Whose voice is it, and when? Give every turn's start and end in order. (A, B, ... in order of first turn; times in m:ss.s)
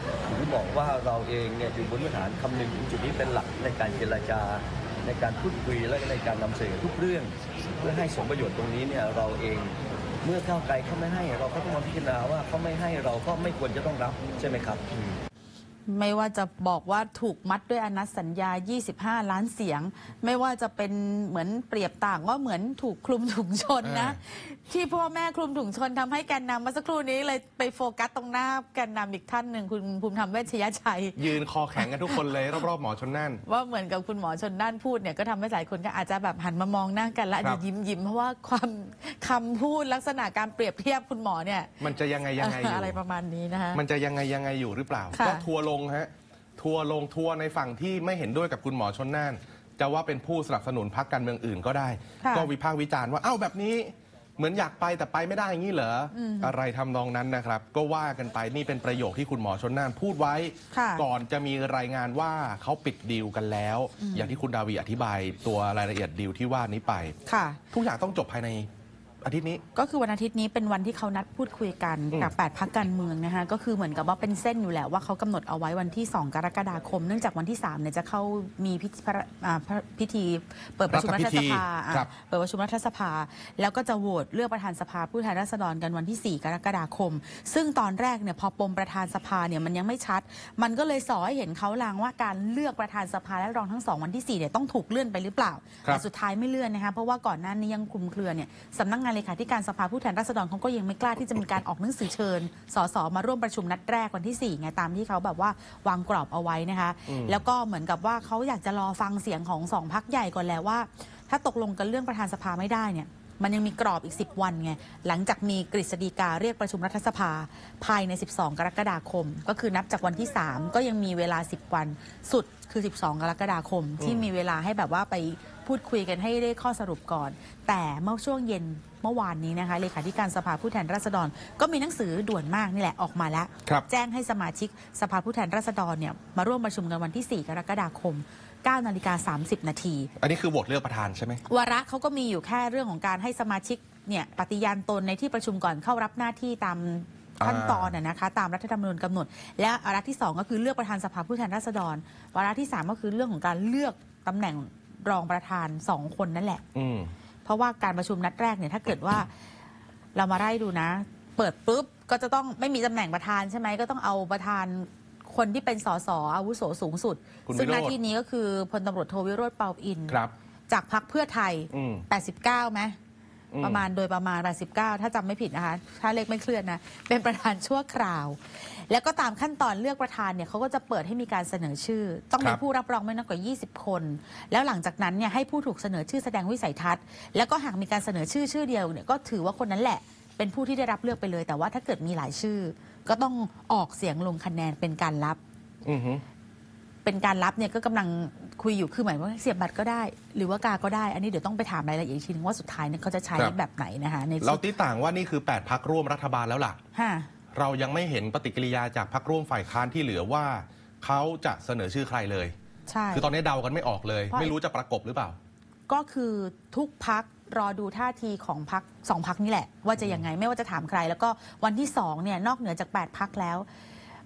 0:00.2-0:15.1 A
0:15.9-0:32.6 B
0:23.8-0:24.2 C
0:31.2-0:33.4 C
0:33.4-0:43.8 B
0:41.8-0:43.0 C
0:43.7-1:07.2 C
0:45.1-0:45.5 B
0:52.2-0:52.5 B
0:56.1-0:56.6 B
1:00.7-1:01.1 B
1:04.0-1:04.4 B
1:07.3-1:07.6 B
1:07.7-1:08.7 C
1:09.2-1:09.6 C
1:09.8-2:20.1 B
1:20.9-1:22.1 C
1:47.1-1:47.4 C
2:04.0-2:04.3 C
2:20.2-2:21.4 C
2:21.5-2:36.6 B
2:27.4-2:27.9 C
2:36.8-2:37.1 C
2:37.4-2:39.3 B
2:40.2-2:50.2 B
2:47.5-2:47.9 C
2:50.7-2:53.0 B
2:51.7-2:52.0 C
2:53.5-2:53.8 C
2:53.6-3:15.4 B
3:15.8-3:16.2 C
3:17.0-3:24.6 B
3:24.4-3:26.8 C
3:27.0-3:27.3 B
3:27.5-3:32.5 C
3:32.9-3:33.3 B
3:33.1-3:35.4 C
3:35.9-3:43.7 B